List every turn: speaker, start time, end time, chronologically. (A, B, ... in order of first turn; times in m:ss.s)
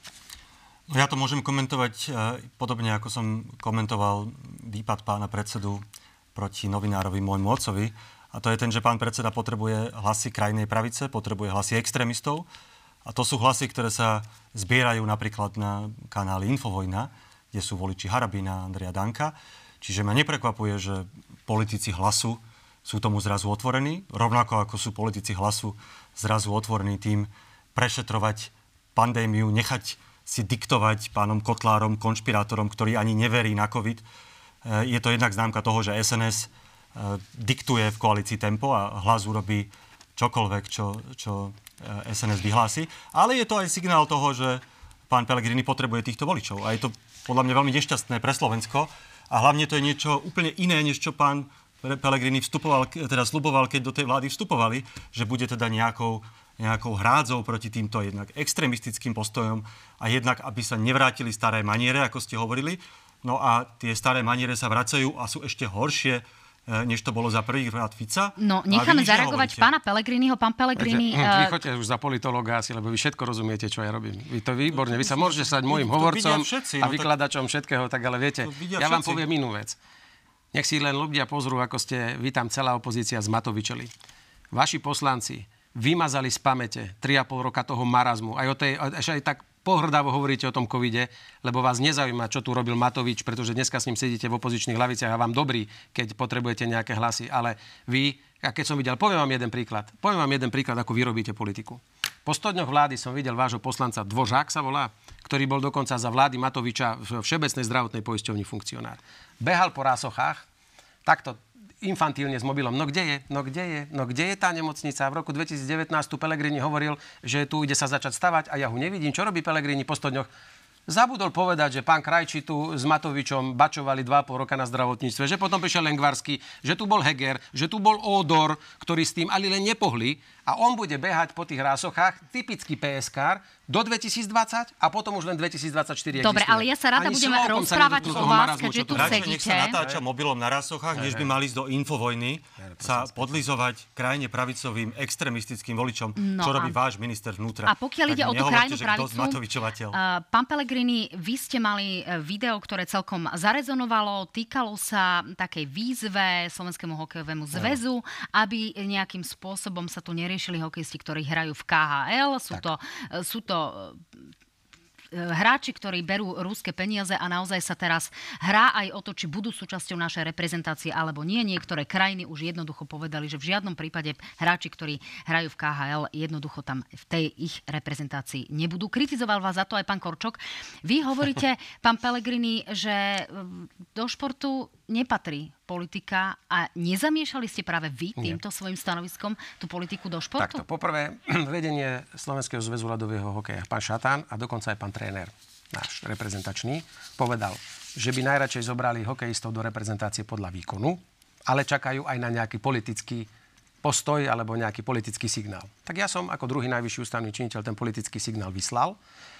0:00.9-0:05.8 A
0:06.3-0:12.5 A
0:13.0-0:34.0 A
0:34.6-1:09.7 A
1:08.4-1:11.6 B
1:10.8-1:19.8 C
1:14.7-1:17.1 A
1:18.4-1:19.2 A
1:20.5-1:23.9 C
1:24.5-1:50.4 C
1:51.0-2:00.3 C
2:00.9-2:20.0 C
2:16.2-2:19.8 B
2:18.0-2:30.0 A
2:21.0-2:21.3 C
2:22.6-2:23.4 C
2:26.2-2:26.8 B
2:27.6-2:29.4 B
2:29.9-2:44.2 B
2:45.1-3:10.6 B
3:10.4-3:23.3 C
3:23.8-3:29.0 C